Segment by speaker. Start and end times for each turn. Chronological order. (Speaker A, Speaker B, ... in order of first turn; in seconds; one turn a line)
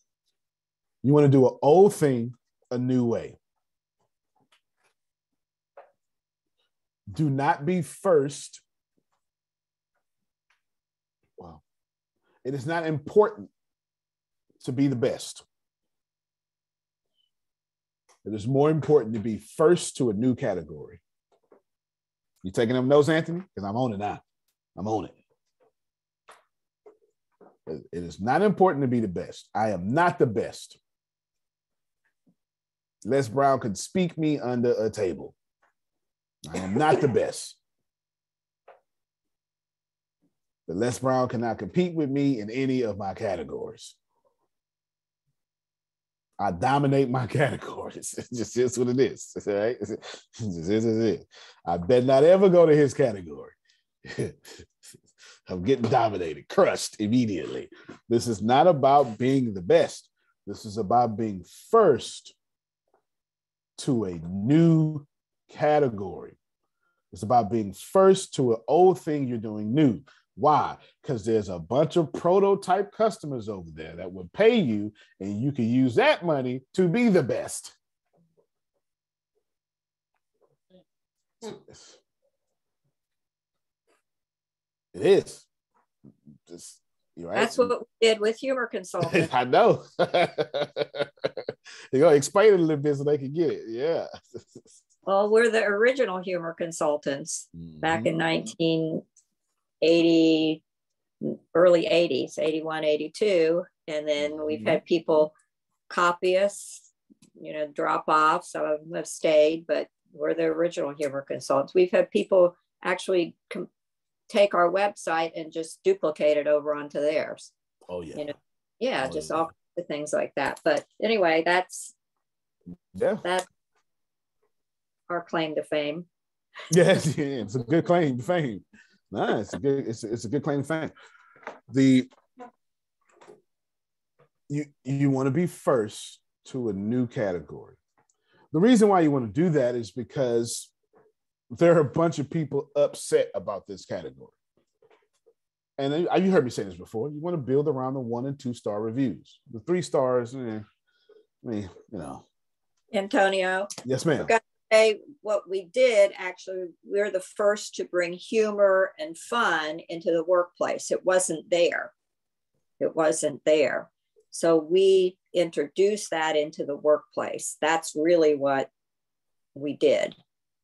Speaker A: 1.0-3.4
Speaker A: 7.1-8.6
Speaker A: 12.4-13.5
Speaker A: 14.6-15.4
Speaker A: 18.2-21.0
Speaker A: 22.4-24.2
Speaker A: 24.8-25.1
Speaker A: 27.7-30.8
Speaker A: 33.0-35.3
Speaker A: 36.4-37.6
Speaker A: 40.7-44.0
Speaker A: 46.4-53.5
Speaker A: 54.0-54.6
Speaker A: 55.5-62.3
Speaker A: 63.8-66.3
Speaker A: 67.1-77.7
Speaker A: 81.4-82.0
Speaker A: 84.9-85.4
Speaker A: 86.5-87.7
Speaker B: 87.3-89.3
Speaker A: 89.0-91.1
Speaker A: 91.9-94.1
Speaker B: 95.0-99.0
Speaker A: 97.5-98.2
Speaker B: 99.8-100.6
Speaker B: 101.2-105.3
Speaker A: 104.2-104.8
Speaker B: 105.9-113.7
Speaker B: 114.3-117.5
Speaker A: 117.9-118.3
Speaker B: 118.2-121.9
Speaker A: 119.0-119.5
Speaker A: 122.9-123.2
Speaker B: 125.1-126.0
Speaker A: 126.7-130.9
Speaker A: 131.7-132.1
Speaker A: 134.5-137.8
Speaker A: 138.5-140.7
Speaker A: 141.5-144.3
Speaker A: 145.8-150.6
Speaker A: 151.4-152.2
Speaker B: 152.9-161.9
Speaker A: 153.8-154.3
Speaker B: 162.8-168.7
Speaker B: 169.5-170.2